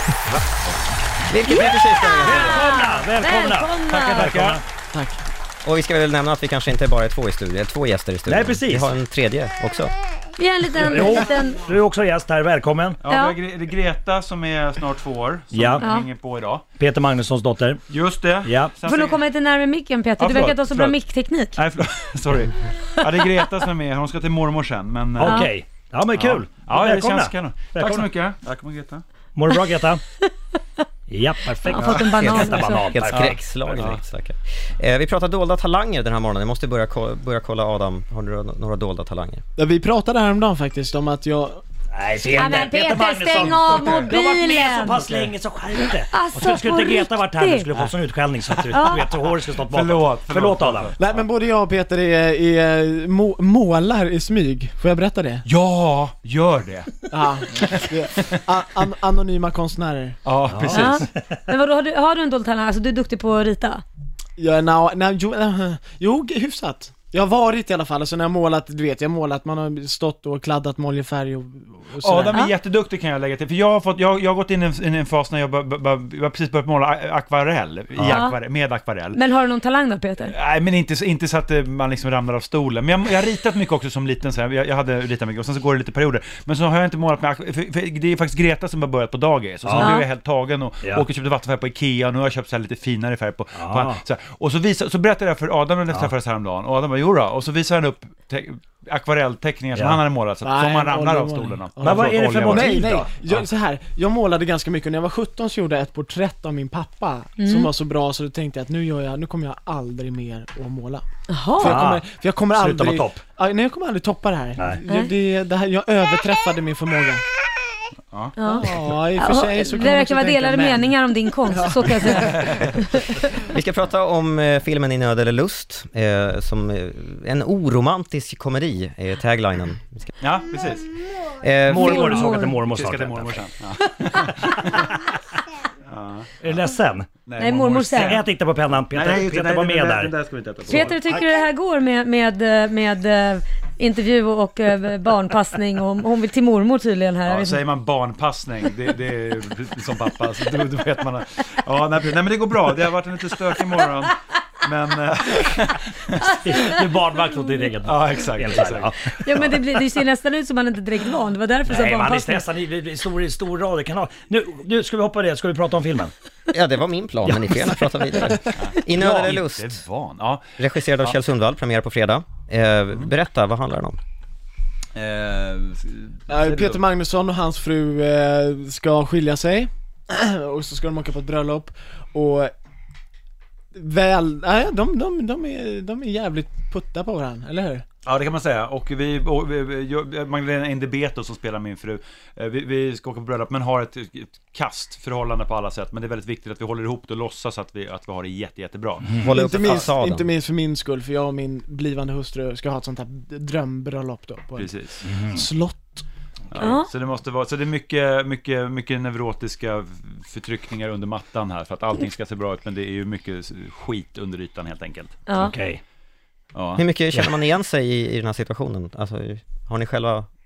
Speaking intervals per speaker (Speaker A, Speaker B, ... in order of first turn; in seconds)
Speaker A: 1.3-2.6, 5.6-9.9, 32.9-39.4, 123.4-130.1, 131.4-132.0, 166.5-169.8, 170.6-174.0, 199.2-200.3, 216.8-220.3
Speaker B: 2.2-4.3, 10.4-11.6, 13.1-13.3, 15.8-16.1, 18.9-21.6, 25.2-25.5, 31.6-32.9, 42.4-45.0, 46.1-47.7, 48.7-49.0, 60.6-63.8, 78.1-78.4, 79.1-80.3, 89.7-90.1, 107.4-107.7, 111.3-111.8, 118.4-123.0, 131.7-132.6, 137.4-138.2, 140.7-147.6, 159.2-162.4, 206.6-206.9, 215.3-215.5
Speaker C: 2.2-4.6, 8.3-8.9, 10.8-13.0, 15.5-15.8, 16.8-17.8, 18.4-18.7, 25.2-28.1, 29.4-30.0, 31.1-33.4, 41.9-50.9, 60.5-61.4, 78.0-78.2, 89.6-90.0, 93.5-94.0, 99.8-100.0, 101.8-103.4, 111.6-113.2, 114.6-114.8, 131.7-133.4, 136.4-137.1, 137.9-140.1, 156.2-159.5, 161.7-166.1, 167.2-168.2, 205.1-205.4, 215.4-215.8
Speaker D: 3.9-4.6, 13.0-16.6, 17.9-19.2, 20.2-21.0, 21.5-25.4, 26.1-29.0, 31.7-32.5, 33.7-34.0, 43.4-44.1, 49.6-51.3, 55.5-57.0, 57.6-58.4, 60.2-61.1, 72.0-79.2, 80.2-102.8, 130.2-130.8, 132.5-134.9, 135.9-136.5, 137.2-138.2, 138.9-141.2, 147.2-156.2, 157.8-159.5, 168.6-170.4, 174.9-176.8, 188.0-199.1, 204.6-205.1, 206.5-215.2, 216.5-216.8
Speaker E: 4.9-5.2, 39.5-41.6, 51.0-55.4, 57.1-60.2, 64.4-72.4, 100.4-111.0, 111.6-117.2, 118.4-122.5, 176.3-182.5, 183.7-187.8, 199.3-204.7, 205.3-206.0